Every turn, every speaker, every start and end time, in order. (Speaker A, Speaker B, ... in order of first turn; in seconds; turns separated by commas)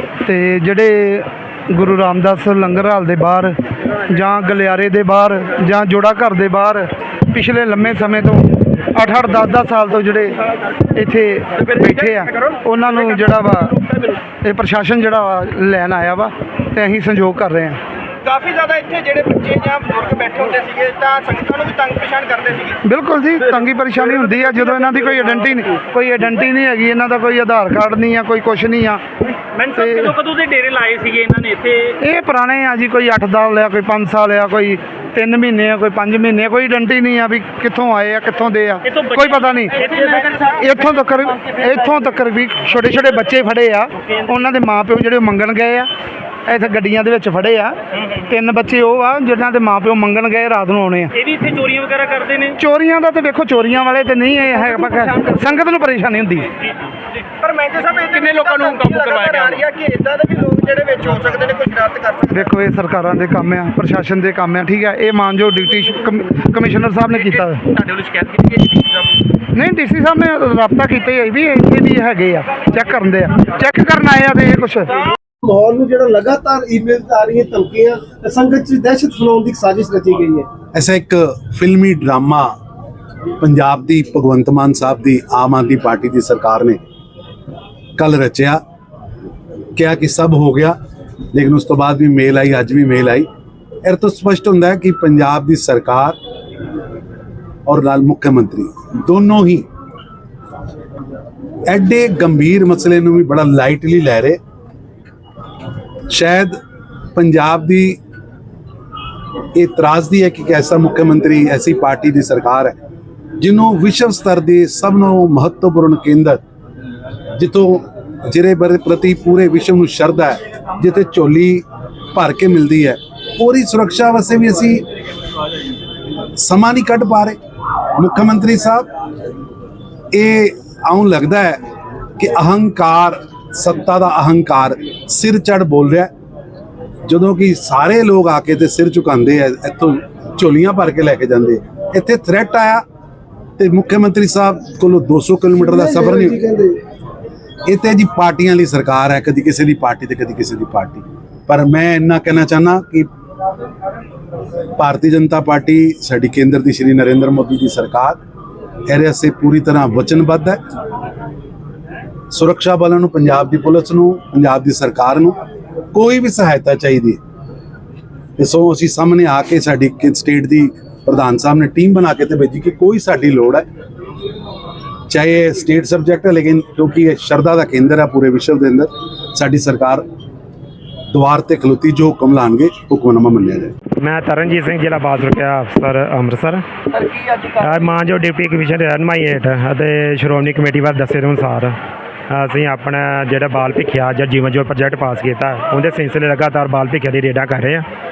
Speaker A: 0.2-17.8, Speaker B: 18.2-22.7, Speaker C: 18.3-22.7, Speaker A: 22.8-29.0, Speaker A: 29.6-30.3, Speaker C: 30.2-31.8, Speaker A: 31.9-45.9, Speaker A: 46.5-51.4, Speaker C: 51.4-52.5, Speaker A: 52.5-56.5, Speaker B: 57.4-62.2, Speaker C: 57.5-62.3, Speaker A: 62.3-67.9, Speaker C: 67.9-68.8, Speaker A: 69.4-75.1, Speaker D: 75.4-80.5, Speaker E: 80.7-82.5, Speaker E: 83.4-86.8, Speaker E: 88.0-88.6, Speaker E: 89.7-90.8, Speaker E: 91.3-93.3, Speaker E: 93.8-96.2, Speaker E: 97.7-99.7, Speaker E: 101.7-104.4, Speaker E: 106.1-106.6, Speaker E: 107.1-108.0, Speaker E: 109.5-112.8, Speaker E: 113.4-116.4, Speaker E: 117.4-124.9, Speaker E: 126.4-127.4, Speaker E: 128.0-128.9, Speaker E: 130.1-131.6, Speaker E: 132.2-136.1, Speaker E: 137.1-142.8, Speaker E: 143.6-146.6, Speaker D: 146.5-146.7, Speaker E: 147.7-153.1, Speaker E: 154.8-158.2, Speaker E: 158.9-160.6, Speaker E: 162.3-165.4, Speaker E: 165.9-167.2, Speaker E: 168.4-173.7, Speaker E: 175.1-180.0, Speaker E: 181.1-183.7, Speaker F: 184.0-191.8, Speaker F: 192.3-197.8